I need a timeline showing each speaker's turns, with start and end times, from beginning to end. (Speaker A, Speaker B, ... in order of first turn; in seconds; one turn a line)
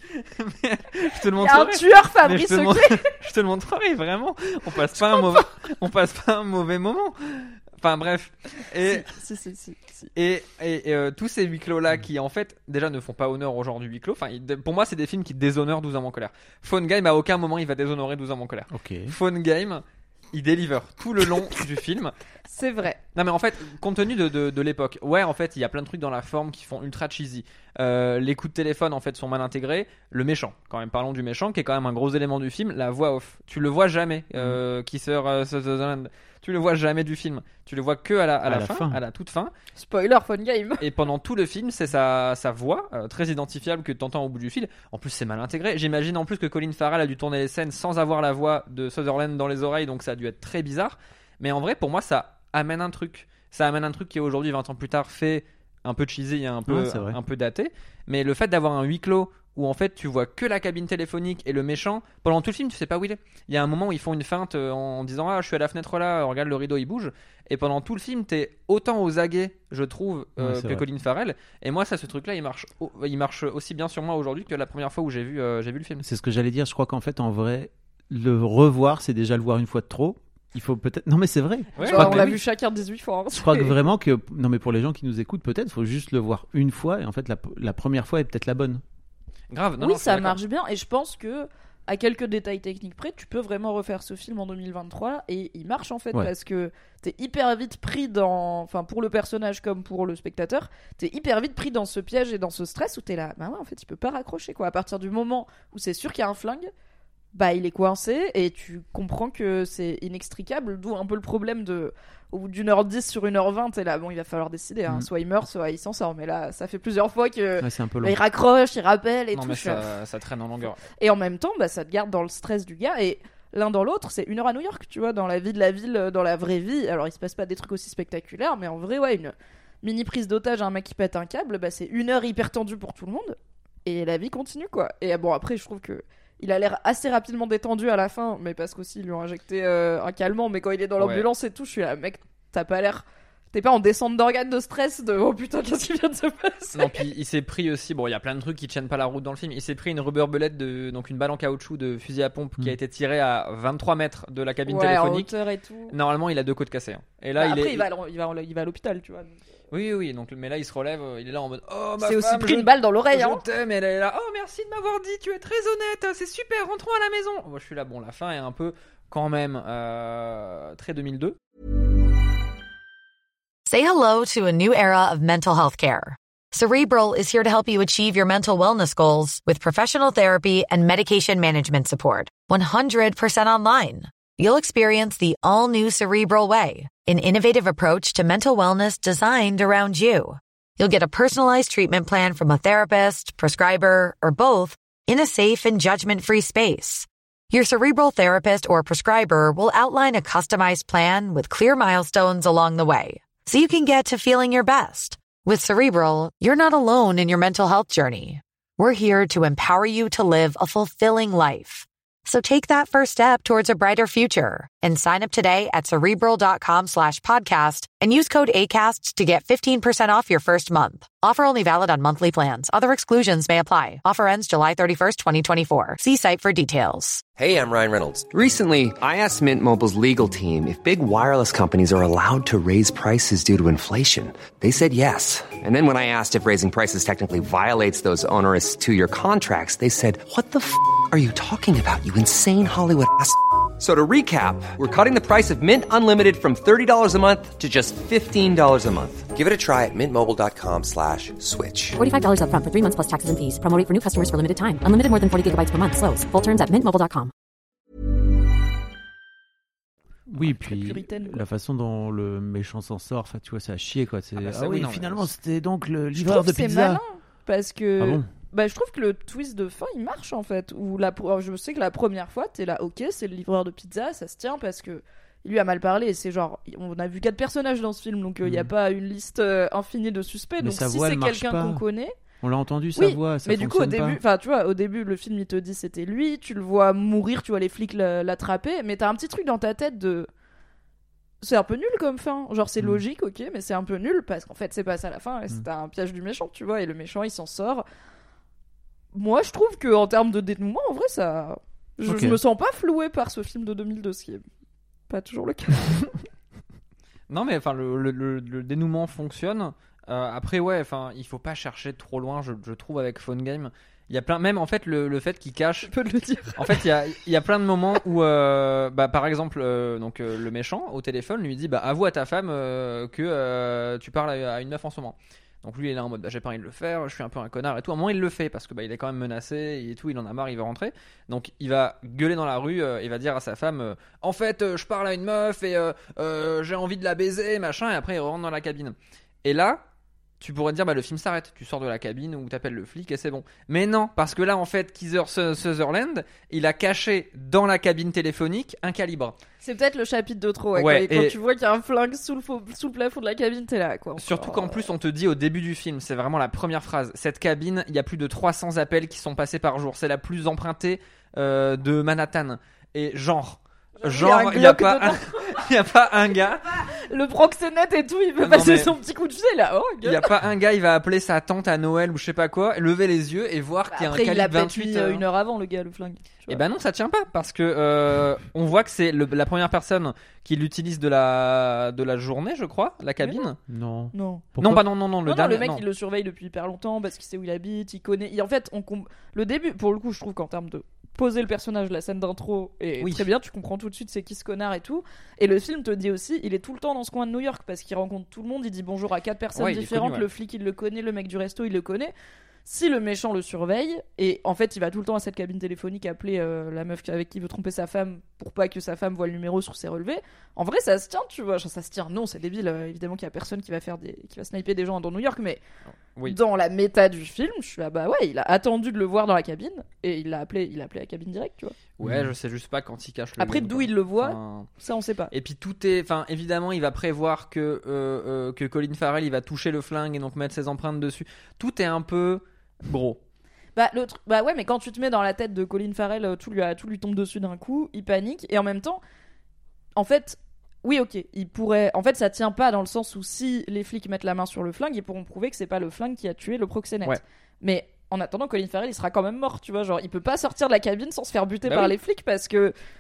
Speaker A: 0.2-9.1
Speaker B: 1.4-3.1
Speaker B: 8.8-10.1
Speaker A: 10.2-22.1
Speaker C: 18.7-19.1
Speaker B: 22.5-23.0
Speaker A: 23.1-39.5
Speaker C: 38.5-39.0
Speaker B: 39.8-40.9
Speaker A: 40.8-76.0
Speaker C: 56.7-57.2
Speaker C: 70.4-70.8
Speaker C: 76.0-82.4
Speaker A: 81.8-82.4
Speaker B: 81.8-83.8
Speaker C: 83.3-88.8
Speaker A: 89.5-90.4
Speaker B: 89.8-106.7
Speaker B: 107.3-119.9
Speaker C: 117.6-118.2
Speaker A: 119.3-120.8
Speaker B: 120.9-147.0
Speaker A: 141.0-141.3
Speaker A: 146.7-155.3
Speaker B: 154.7-155.9
Speaker A: 155.9-157.9
Speaker B: 157.4-159.4
Speaker A: 159.7-171.4
Speaker B: 162.0-163.4
Speaker D: 173.7-227.2
Speaker E: 227.4-252.0
Speaker F: 252.0-257.3
Speaker C: 260.3-267.0
Speaker B: 260.4-261.4
Speaker A: 264.4-265.3
Speaker B: 266.2-282.1
Speaker C: 268.0-268.3
Speaker C: 278.4-278.7
Speaker C: 280.6-281.8
Speaker C: 282.4-284.2
Speaker B: 283.0-290.3
Speaker B: 291.4-297.9
Speaker B: 299.1-304.4
Speaker C: 302.1-302.4
Speaker B: 305.1-306.1
Speaker A: 307.3-315.9
Speaker B: 315.8-316.8
Speaker A: 316.6-339.8
Speaker A: 340.4-349.4
Speaker B: 349.6-354.9
Speaker A: 350.8-351.4
Speaker A: 354.2-366.8
Speaker B: 364.0-365.6
Speaker B: 366.8-370.3
Speaker A: 368.4-369.0
Speaker A: 370.0-375.2
Speaker B: 373.9-376.6
Speaker A: 376.5-383.6
Speaker B: 383.2-383.5
Speaker C: 383.7-384.8
Speaker B: 384.1-384.5
Speaker A: 384.6-385.8
Speaker B: 385.3-402.1
Speaker A: 393.0-393.2
Speaker A: 399.6-400.3
Speaker B: 402.7-415.6
Speaker B: 416.2-421.8
Speaker A: 422.0-424.7
Speaker C: 422.0-422.3
Speaker B: 423.4-425.3
Speaker A: 425.3-433.2
Speaker B: 433.8-439.0
Speaker B: 440.0-452.7
Speaker A: 451.7-451.9